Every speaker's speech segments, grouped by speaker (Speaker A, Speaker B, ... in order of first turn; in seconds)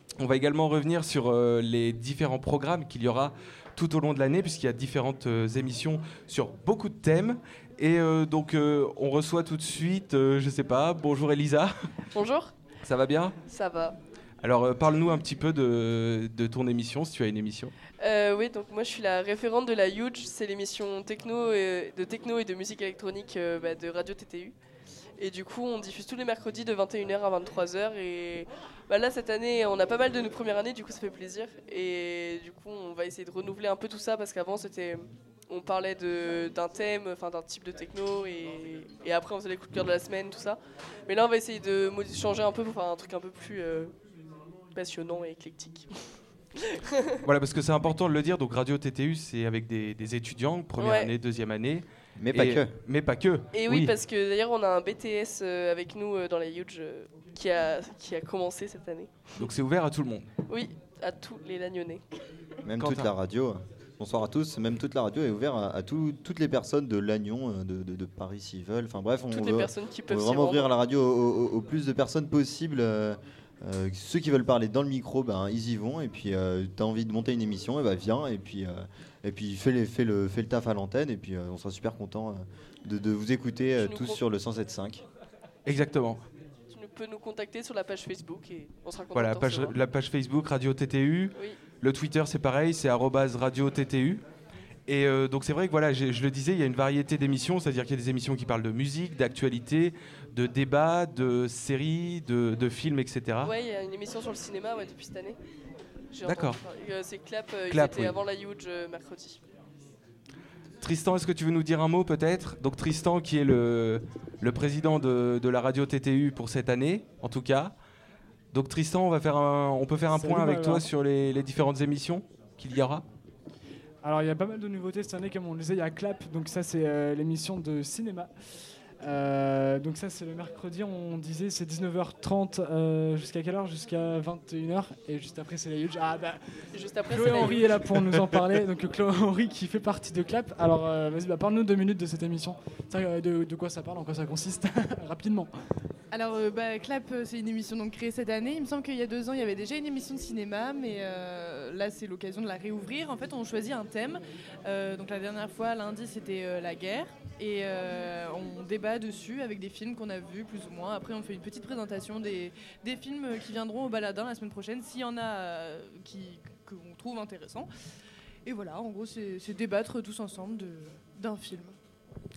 Speaker A: 0.2-11.7, 12.8-13.4, 14.4-17.7, 47.2-53.9, 59.4-60.3, 62.8-63.1, 85.7-86.2, 89.1-94.2, 94.9-103.5, 106.2-106.6, 107.7-108.2, 110.8-117.8, 118.5-123.0
Speaker B: 12.1-12.5, 13.5-14.0, 18.0-24.6, 25.2-43.9, 44.7-45.9, 46.6-47.2, 50.8-51.1, 53.5-59.5, 60.5-62.0, 69.3-70.7, 83.8-84.2, 86.7-89.8, 103.4-105.4, 106.1-109.4, 136.7-137.8
Speaker C: 52.2-52.7, 62.6-85.0
Speaker D: 120.1-120.9, 124.0-128.3, 129.0-136.4, 137.1-145.5
Speaker E: 146.1-167.7, 168.5-171.8